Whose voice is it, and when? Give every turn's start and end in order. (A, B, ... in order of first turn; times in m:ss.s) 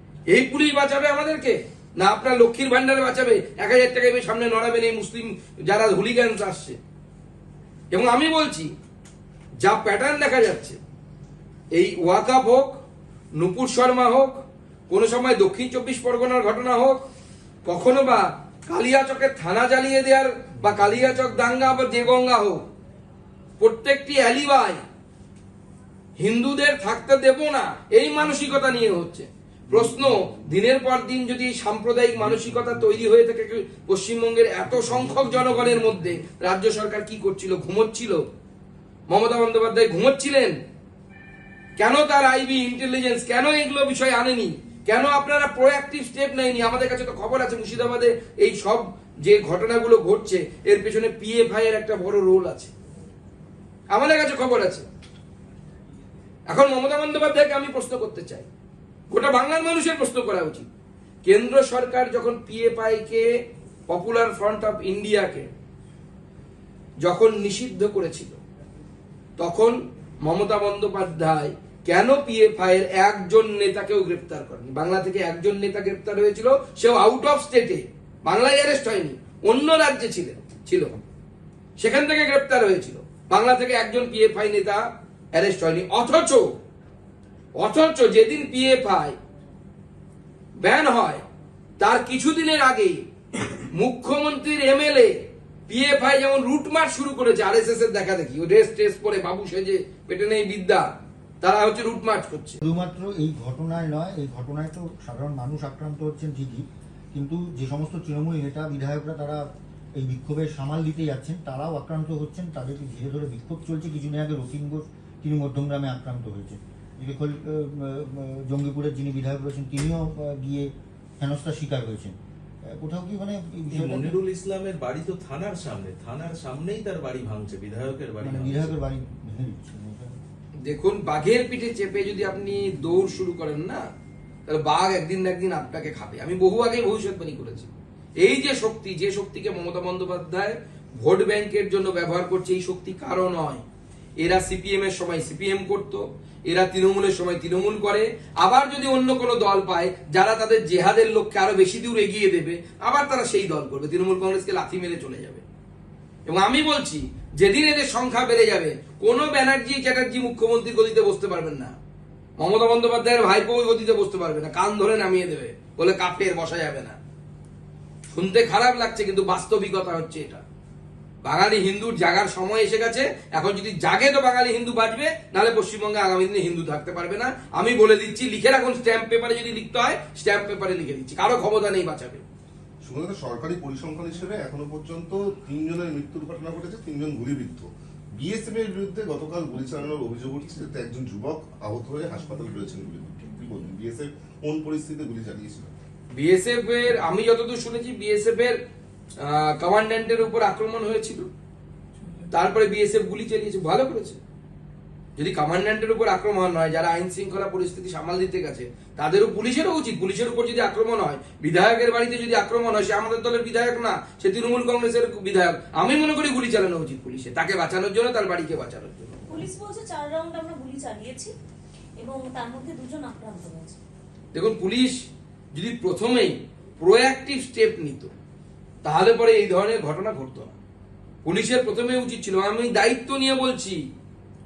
0:00.3-0:06.8 A
0:07.9-0:08.7 A
0:09.6-0:10.8 A
0:11.7-0:12.8 A
0:13.4-0:17.0 A
0:17.6-0:22.6 A
0:23.6-0:24.8 A
0:26.2-0:38.2 A
0:39.1-0:40.6 A
0:41.8-0:52.7 A
0:53.9-0:54.9 A
0:56.5-0:58.5 A
0:59.1-1:00.7 A
1:01.2-1:03.3 A
1:03.9-1:05.5 A
1:07.0-1:08.4 A
1:09.4-1:21.0 A
1:21.8-1:26.5 A
1:27.6-1:29.2 A
1:30.6-1:31.2 A
1:31.8-1:33.0 A
1:33.7-1:40.9 A
1:41.4-1:42.6 A
1:42.6-2:04.2 B
2:03.7-2:08.8 C
2:08.2-2:10.2 B
2:10.6-2:13.9 A
2:14.5-2:17.7 A
2:18.2-2:23.6 A
2:24.2-2:35.4 A
2:36.3-2:41.8 A
2:42.4-2:47.0 A
2:48.1-2:50.4 A
2:51.2-3:02.2 A
3:02.8-3:15.7 D
3:16.1-3:18.6 A
3:19.2-3:21.3 A
3:22.3-3:24.2 A
3:25.2-3:39.3 A
3:39.3-3:41.3 E
3:42.0-3:43.8 E
3:44.3-3:45.0 A
3:45.5-3:48.1 A
3:48.8-3:50.6 A
3:51.2-3:53.8 A